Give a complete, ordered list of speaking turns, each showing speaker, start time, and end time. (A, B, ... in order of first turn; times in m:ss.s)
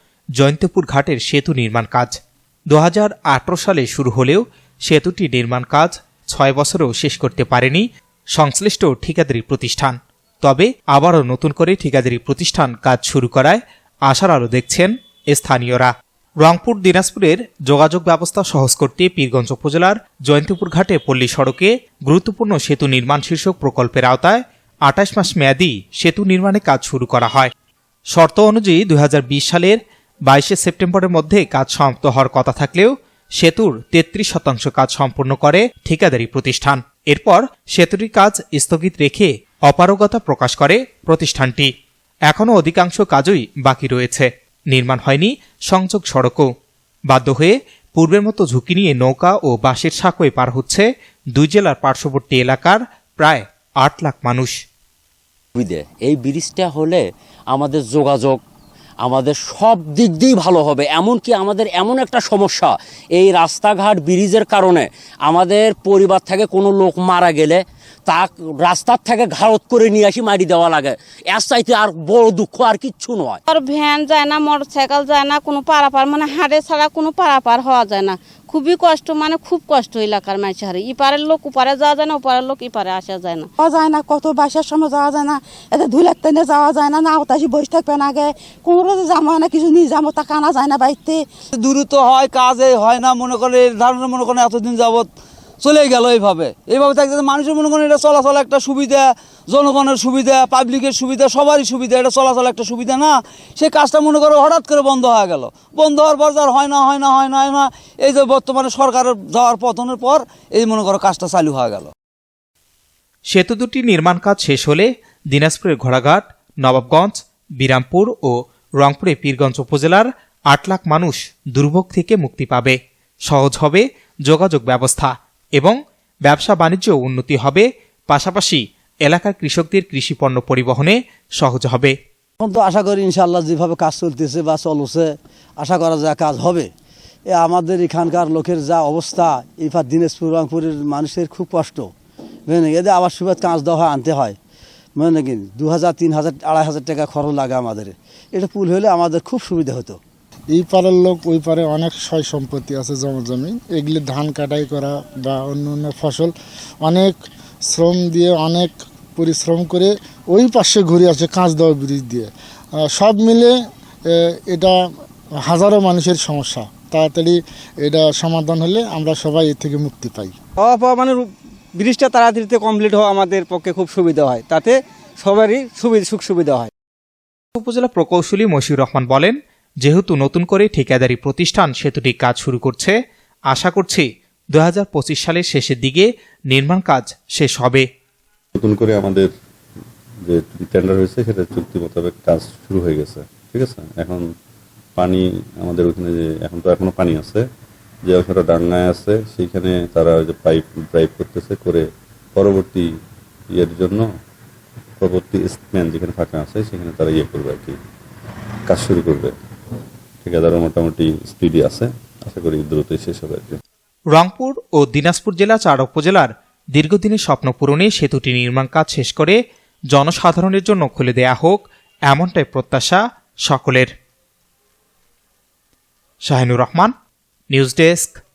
0:00.4-0:02.2 A
0:02.7-0:27.5 A
0:28.1-0:41.7 A
0:42.3-0:46.5 A
0:47.1-0:54.6 A
0:55.6-0:58.4 B
0:59.0-1:13.4 B
1:13.5-1:23.5 C
1:23.6-1:31.2 D
1:31.5-1:35.1 E
1:35.6-1:51.9 E
1:53.3-2:12.0 A
2:12.4-2:16.7 F
2:17.4-2:21.9 F
2:22.5-2:24.4 F
2:25.0-2:30.0 F
2:30.5-2:42.3 G
2:42.8-2:43.5 G
2:44.1-2:44.8 G
2:45.4-2:50.3 G
2:50.6-2:56.7 H
2:57.6-3:03.0 A
3:03.5-3:07.8 A
3:08.6-3:09.3 I
3:10.2-3:14.2 I
3:15.0-3:17.4 I
3:18.0-3:21.8 I
3:22.4-3:22.9 I
3:23.5-3:24.1 I
3:25.0-3:27.8 I
3:28.7-3:29.3 I
3:30.2-3:33.6 I
3:34.1-3:39.4 A
3:39.9-3:43.9 A
3:46.2-3:46.9 A
3:47.5-3:48.2 A